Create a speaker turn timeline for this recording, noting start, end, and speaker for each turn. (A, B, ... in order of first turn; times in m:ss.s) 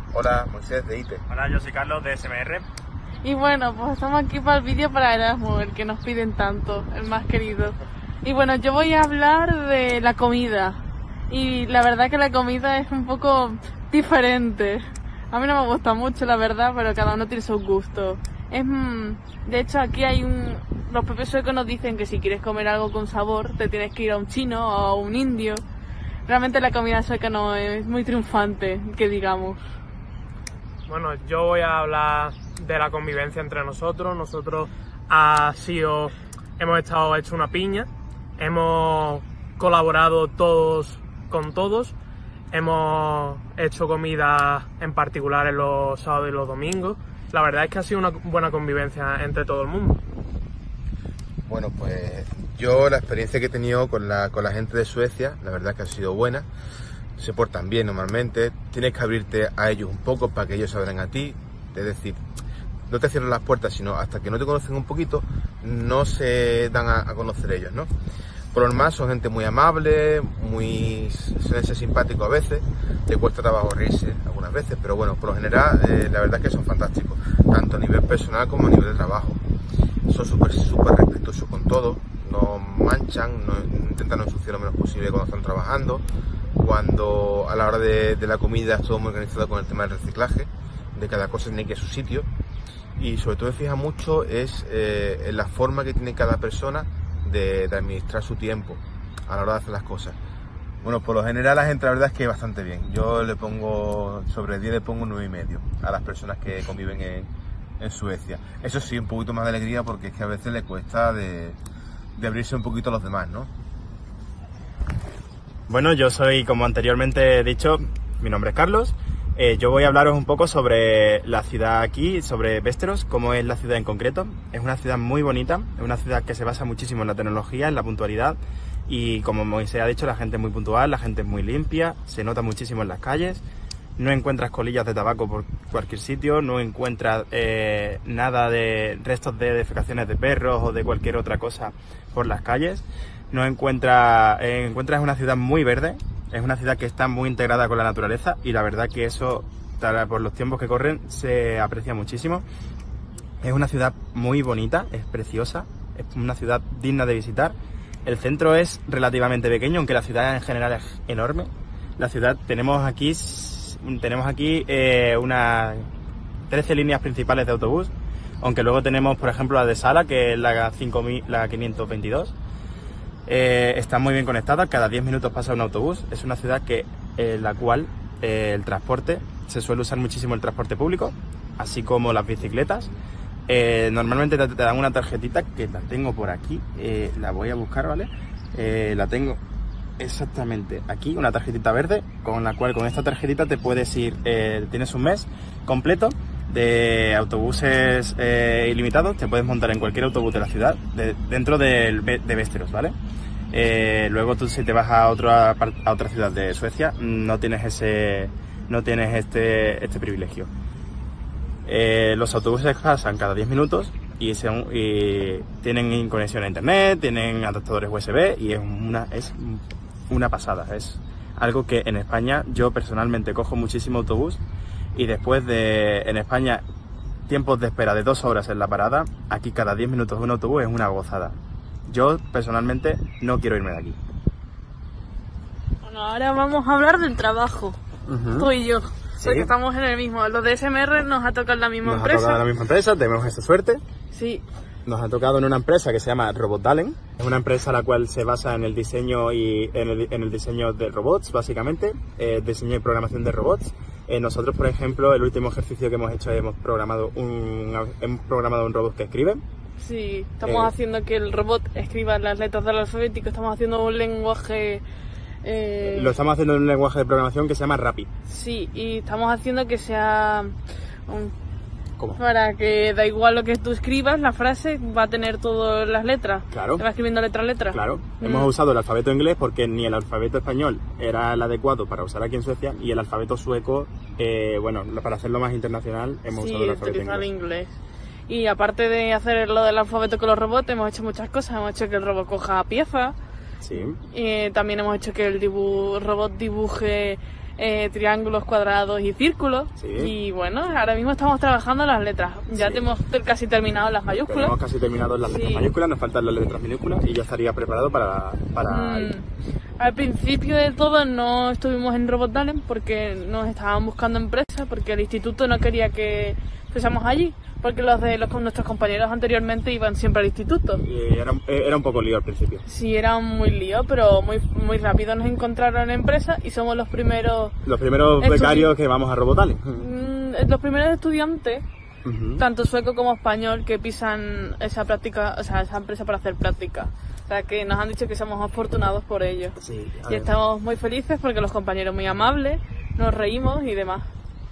0:00.1-0:01.2 A
0:01.3-0:02.6 B
0:03.2-0:25.6 C
0:26.3-0:29.6 C
0:30.9-0:42.0 D
0:42.5-0:50.0 D
0:51.5-0:56.5 A
0:57.2-1:02.2 A
1:02.9-1:07.9 A
1:08.5-1:19.4 A
1:20.1-1:26.0 A
1:26.6-1:32.3 A
1:33.0-1:40.2 A
1:40.8-1:51.6 A
1:52.2-1:53.5 A
1:55.7-2:13.4 B
2:14.0-2:32.4 B
2:33.4-2:37.6 B
2:38.1-2:45.9 B
2:46.5-2:47.9 B
2:48.4-2:52.3 B
2:53.3-3:02.9 B
3:03.5-3:09.4 B
3:10.0-3:22.9 B
3:23.5-3:30.5 B
3:31.7-3:44.4 B
3:45.0-3:46.6 B
3:47.3-3:51.4 B
3:51.9-3:54.0 B
3:55.8-3:57.8 C
3:58.1-3:58.5 B
3:58.3-4:02.4 C
3:59.2-3:59.5 B
4:01.8-4:03.8 B
4:04.1-4:04.4 C
4:04.9-4:19.4 B
4:19.8-4:24.8 C
4:20.4-4:20.7 B
4:25.4-4:26.1 C
4:25.8-4:28.1 B
4:28.3-4:30.6 C
4:31.1-4:31.3 C
4:32.2-4:38.5 C
4:36.5-4:36.8 B
4:37.7-4:47.3 B
4:46.3-4:47.8 C
4:48.3-4:53.2 C
4:53.6-4:54.0 B
4:54.0-5:04.5 C
4:59.8-5:00.1 B
5:02.6-5:02.9 B
5:04.1-5:09.1 B
5:05.2-5:05.7 C
5:08.6-5:09.3 C
5:09.8-5:20.8 C
5:20.8-5:22.6 B
5:22.7-5:27.6 C
5:27.6-5:29.8 B
5:28.2-5:28.8 C
5:29.8-5:31.6 C
5:32.0-5:32.4 B
5:32.4-5:39.6 C
5:39.6-5:40.3 B
5:40.1-5:44.1 C